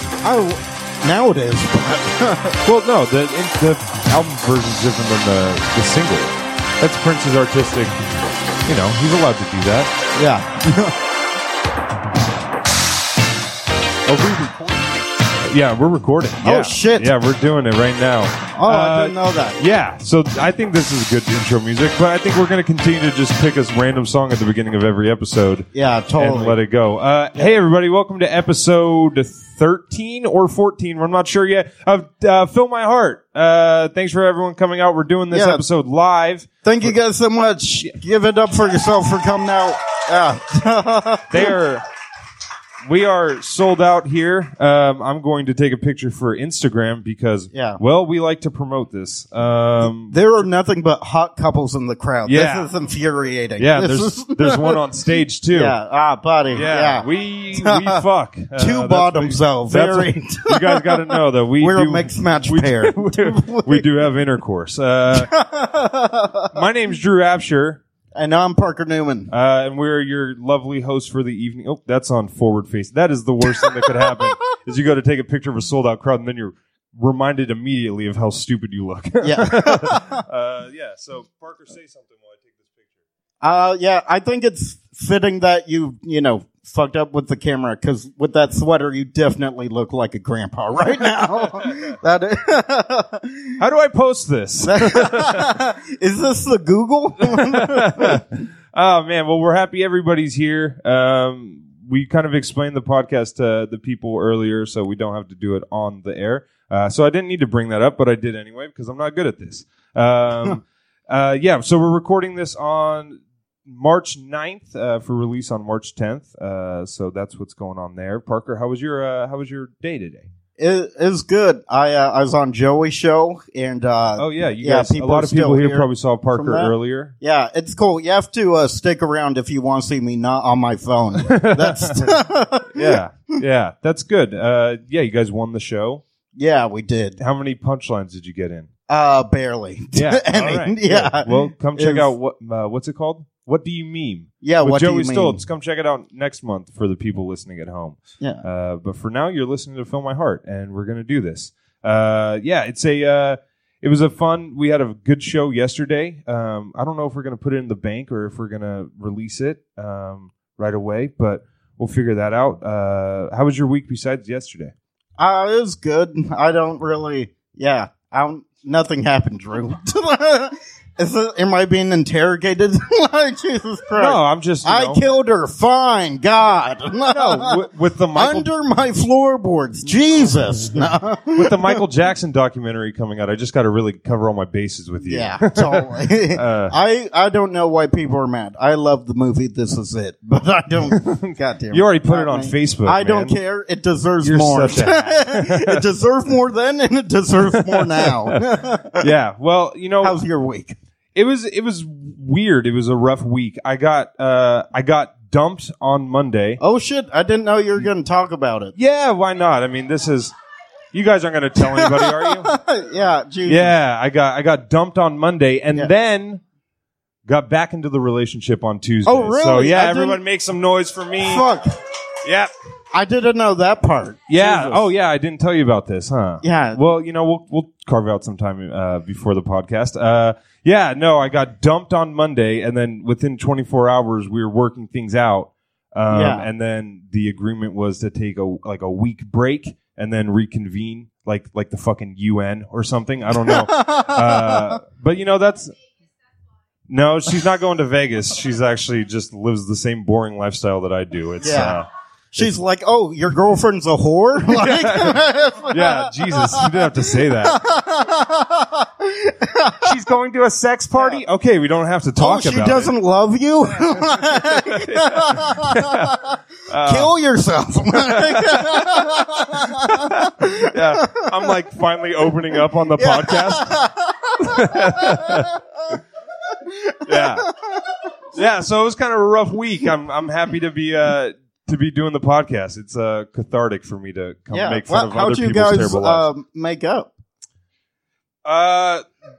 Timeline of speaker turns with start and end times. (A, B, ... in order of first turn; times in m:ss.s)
0:00.2-0:02.6 A
0:02.6-0:08.0 B
0:08.6-0:10.0 B
0:10.2-0:11.0 A
0:14.1-0:15.0 A
0:15.4-0:36.9 B
0:16.4-0:17.1 A
0:18.5-0:19.6 A
0:25.7-0:26.6 A
0:35.3-0:35.6 A
0:36.6-0:41.6 A
0:41.3-0:41.9 B
0:42.9-0:50.2 B
0:47.5-0:47.8 A
0:49.8-0:54.8 A
0:52.3-0:52.7 B
0:53.6-0:55.8 B
0:55.5-0:58.0 A
0:56.5-1:05.3 B
0:58.6-1:03.9 A
1:05.1-1:06.5 A
1:06.5-1:07.8 B
1:08.1-1:09.3 A
1:09.3-1:22.9 B
1:13.5-1:14.3 A
1:19.2-1:20.2 A
1:23.4-1:33.6 A
1:33.6-1:35.5 B
1:34.6-1:38.2 A
1:37.4-2:00.3 B
2:00.6-2:13.0 A
2:04.2-2:07.1 B
2:11.2-2:16.0 B
2:16.4-2:17.2 A
2:17.2-2:18.7 B
2:18.9-2:22.1 A
2:19.9-2:44.7 B
2:24.4-2:25.4 A
2:45.2-3:01.8 A
2:54.0-2:55.0 B
2:57.1-2:58.5 B
3:01.4-3:06.8 B
3:05.0-3:19.1 A
3:10.9-3:13.4 B
3:14.2-3:15.8 B
3:17.5-3:18.4 B
3:19.0-3:20.2 B
3:20.0-3:20.8 A
3:21.2-3:26.6 B
3:26.6-3:28.7 A
3:28.8-3:30.4 B
3:30.9-3:32.5 B
3:31.6-3:33.8 A
3:33.5-3:36.4 B
3:37.3-3:41.5 B
3:39.0-3:40.2 A
3:41.2-3:41.8 A
3:42.2-3:42.5 B
3:42.9-3:44.9 A
3:44.3-4:05.7 B
3:46.4-3:46.8 A
3:56.1-3:56.5 A
4:03.4-4:04.8 A
4:06.9-4:12.5 B
4:11.4-4:11.8 A
4:12.3-4:20.0 A
4:14.6-4:15.2 B
4:15.7-4:17.6 B
4:19.8-4:22.9 B
4:21.0-4:21.2 A
4:22.2-4:31.5 A
4:23.9-4:26.1 B
4:26.7-4:27.1 B
4:28.1-4:33.8 B
4:33.0-4:36.0 A
4:34.4-4:35.6 B
4:36.5-4:38.0 A
4:37.0-4:37.5 B
4:38.3-4:46.3 B
4:44.5-4:47.1 A
4:48.4-4:49.0 B